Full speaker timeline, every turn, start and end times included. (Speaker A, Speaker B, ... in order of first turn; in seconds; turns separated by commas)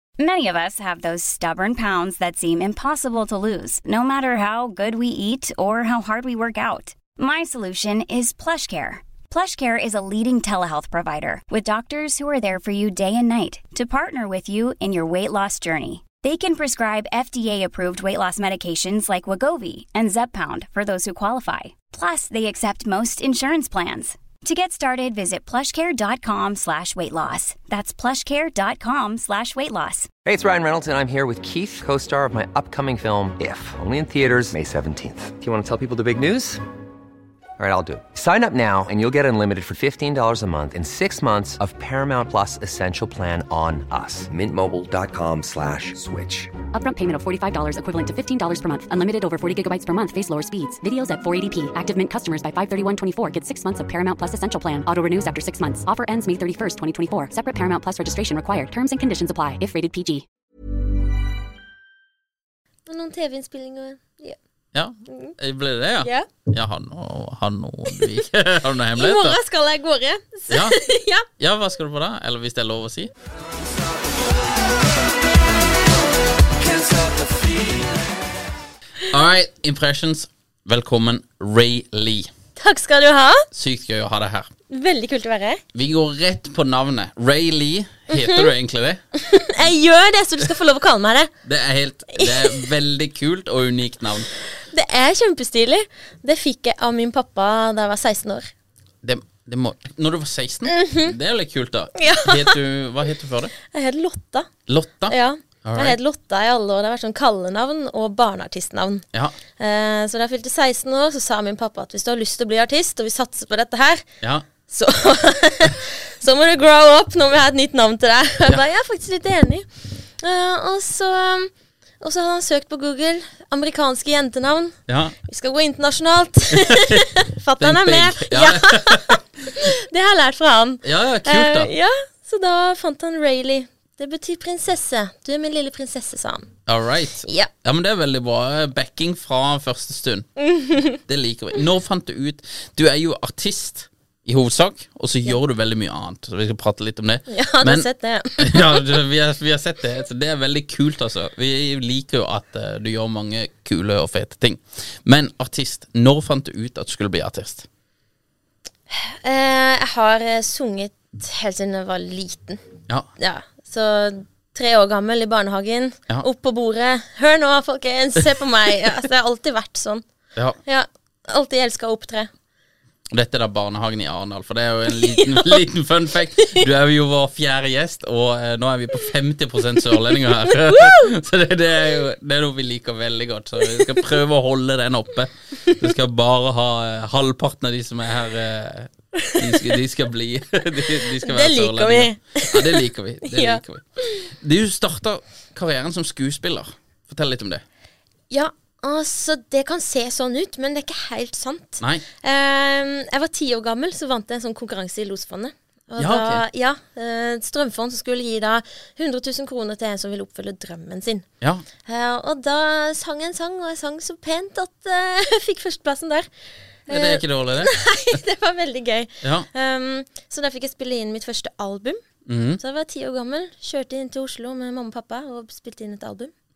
Speaker A: 0.2-30.1, Speaker B: 30.2-36.6, Speaker B: 37.6-46.5, Speaker C: 46.7-60.2, Speaker D: 62.9-64.4, Speaker E: 64.7-69.4, Speaker D: 65.1-65.3, Speaker D: 66.0-66.3, Speaker D: 69.0-71.3, Speaker E: 70.5-70.8, Speaker E: 71.4-73.1, Speaker E: 79.1-82.3, Speaker D: 82.6-83.5, Speaker E: 83.5-84.5, Speaker D: 84.7-85.6, Speaker E: 85.7-89.0, Speaker D: 88.1-88.5, Speaker D: 89.2-91.3, Speaker E: 91.5-94.3, Speaker D: 92.2-92.7, Speaker D: 94.6-98.5, Speaker E: 99.0-103.5, Speaker D: 100.7-101.1, Speaker D: 102.0-102.6, Speaker D: 103.7-104.5, Speaker E: 104.7-106.0, Speaker D: 105.1-109.0, Speaker D: 109.6-114.1, Speaker D: 114.7-136.5, Speaker E: 124.9-125.2, Speaker E: 126.6-127.0, Speaker E: 127.6-129.6, Speaker E: 130.8-131.7, Speaker E: 136.7-140.3, Speaker D: 140.4-141.0, Speaker E: 140.9-147.9, Speaker D: 147.3-148.9, Speaker E: 148.4-157.7, Speaker D: 158.9-162.6, Speaker D: 163.2-170.0, Speaker D: 170.7-172.3, Speaker E: 173.1-197.6, Speaker D: 174.9-175.6, Speaker D: 176.4-176.6, Speaker D: 180.5-181.1, Speaker D: 183.6-184.0, Speaker D: 189.2-189.7, Speaker D: 191.2-193.6, Speaker D: 198.3-211.3, Speaker E: 206.0-206.4, Speaker D: 211.8-216.3, Speaker D: 216.9-222.0, Speaker E: 216.9-217.7, Speaker E: 219.2-219.5, Speaker E: 222.3-222.6, Speaker D: 222.6-226.3